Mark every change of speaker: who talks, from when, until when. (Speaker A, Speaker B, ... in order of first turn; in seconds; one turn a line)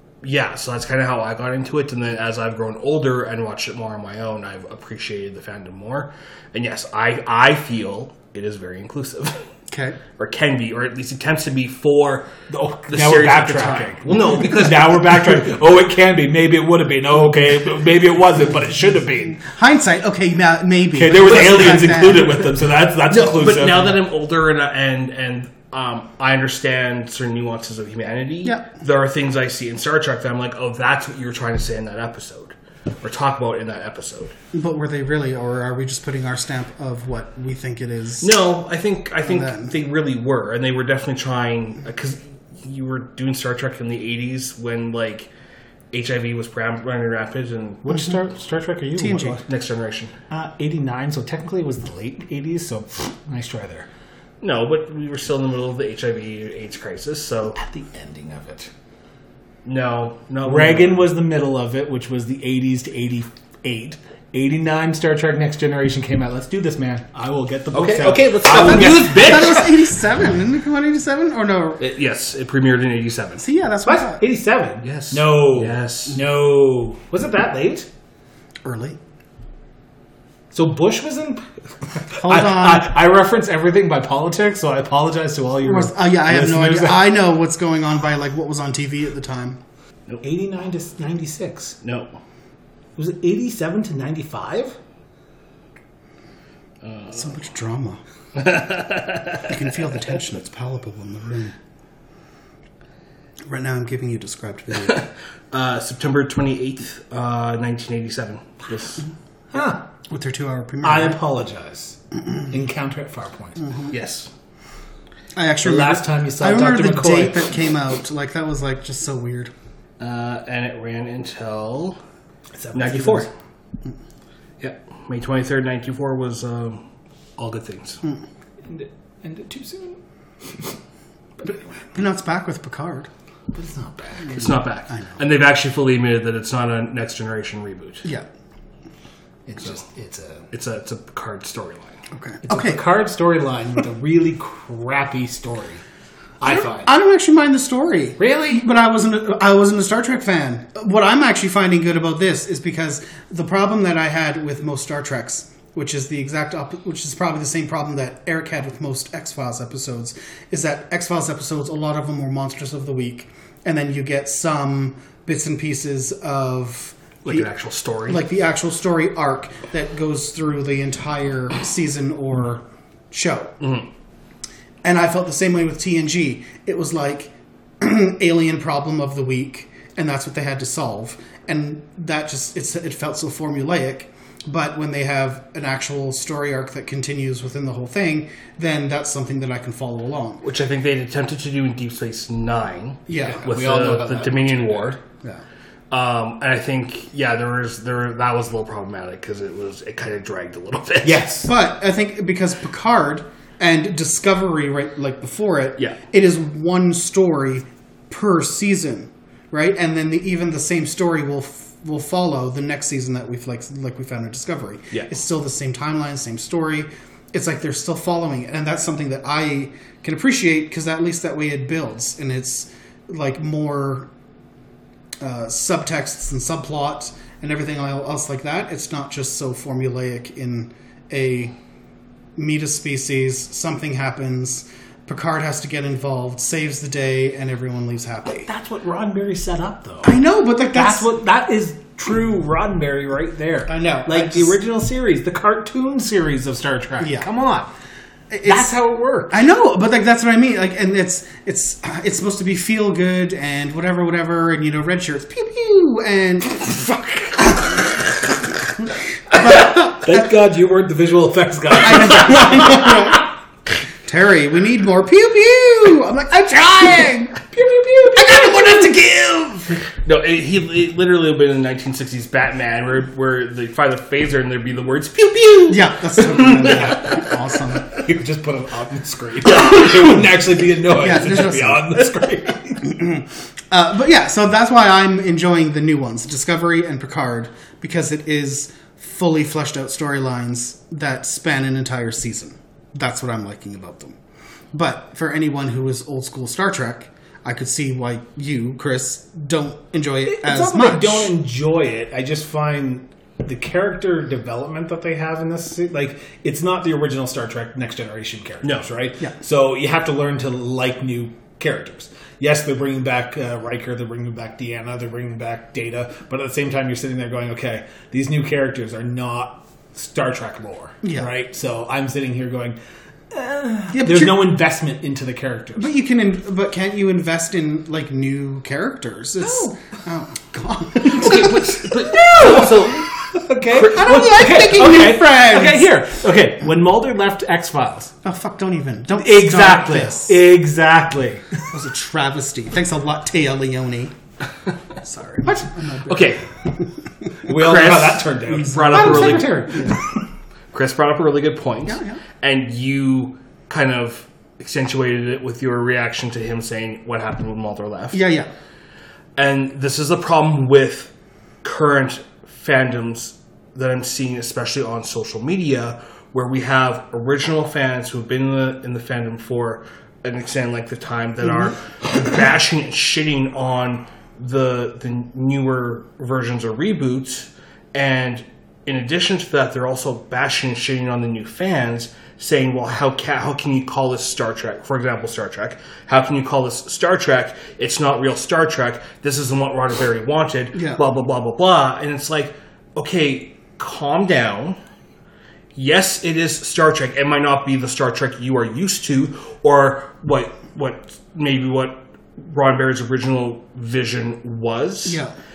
Speaker A: 0.2-9.4
Speaker B: 9.7-10.0
Speaker A: 10.2-12.3
Speaker C: 12.5-19.4
Speaker A: 12.9-15.5
Speaker B: 19.3-22.5
Speaker C: 20.9-24.0
Speaker A: 21.3-21.8
Speaker A: 23.1-34.3
Speaker B: 34.5-38.4
Speaker A: 38.2-45.3
Speaker B: 39.3-39.7
Speaker A: 45.9-48.0
Speaker C: 47.8-49.4
Speaker B: 49.0-49.4
Speaker A: 49.4-50.1
Speaker C: 50.3-53.9
Speaker A: 54.4-57.6
Speaker C: 57.6-58.7
Speaker A: 59.6-61.1
Speaker C: 60.4-69.5
Speaker A: 67.7-69.8
Speaker B: 69.0-71.8
Speaker A: 71.8-73.4
Speaker B: 73.4-74.2
Speaker C: 73.8-77.9
Speaker A: 74.8-76.2
Speaker B: 78.6-79.0
Speaker C: 80.5-87.1
Speaker B: 82.2-82.9
Speaker B: 85.6-89.6
Speaker C: 90.2-91.8
Speaker A: 91.8-92.2
Speaker C: 93.0-94.8
Speaker A: 96.8-97.3
Speaker B: 97.1-98.0
Speaker A: 98.4-99.5
Speaker B: 99.4-101.5
Speaker B: 103.5-105.1
Speaker A: 104.8-109.1
Speaker C: 109.5-109.8
Speaker B: 110.1-111.2
Speaker C: 110.8-113.7
Speaker B: 113.6-113.9
Speaker A: 113.9-114.3
Speaker B: 115.3-119.5
Speaker C: 115.6-117.5
Speaker A: 120.0-122.0
Speaker C: 122.6-123.3
Speaker A: 122.7-123.3
Speaker A: 124.6-126.8
Speaker A: 127.4-128.0
Speaker C: 128.7-130.7
Speaker B: 131.9-133.1
Speaker C: 133.5-134.5
Speaker A: 134.3-138.1
Speaker C: 139.5-140.4
Speaker A: 140.5-142.0
Speaker B: 142.1-142.8
Speaker C: 142.4-145.8
Speaker C: 146.4-146.9
Speaker B: 146.4-167.5
Speaker C: 148.2-148.7
Speaker A: 167.2-168.2
Speaker B: 168.1-173.6
Speaker A: 173.6-173.9
Speaker B: 174.8-190.4
Speaker A: 190.4-195.0
Speaker B: 193.1-193.4
Speaker C: 193.2-195.0
Speaker A: 195.9-201.2
Speaker C: 201.0-201.5
Speaker B: 201.4-224.1
Speaker B: 225.2-231.5
Speaker B: 232.4-238.5
Speaker C: 238.3-240.2
Speaker B: 240.0-241.1
Speaker C: 240.7-247.7
Speaker B: 243.7-244.6
Speaker B: 247.0-247.3
Speaker B: 248.3-248.8
Speaker C: 248.4-249.5
Speaker B: 249.3-258.0
Speaker B: 258.6-260.3
Speaker C: 259.8-263.2
Speaker B: 261.8-263.3
Speaker B: 264.1-267.5
Speaker C: 267.5-268.5
Speaker B: 268.1-269.8
Speaker A: 270.0-277.2
Speaker B: 275.7-277.9
Speaker C: 277.9-282.9
Speaker B: 280.9-282.0
Speaker B: 282.8-294.2
Speaker B: 294.7-301.3
Speaker C: 300.3-322.8
Speaker B: 321.0-321.3
Speaker C: 323.3-325.9
Speaker B: 323.9-324.5
Speaker B: 325.8-331.6
Speaker C: 329.4-329.7
Speaker A: 331.0-333.1
Speaker C: 332.1-338.1
Speaker B: 333.8-335.9
Speaker B: 338.2-340.4
Speaker C: 339.2-341.6
Speaker B: 341.7-344.2
Speaker B: 345.0-346.4
Speaker A: 346.1-346.5
Speaker C: 347.4-350.1
Speaker A: 347.5-349.9
Speaker B: 348.5-350.0
Speaker A: 350.7-358.2
Speaker B: 351.9-352.2
Speaker B: 358.1-358.5
Speaker A: 359.4-361.1
Speaker A: 361.6-394.8
Speaker B: 390.8-391.0
Speaker A: 395.8-405.2
Speaker B: 405.1-405.3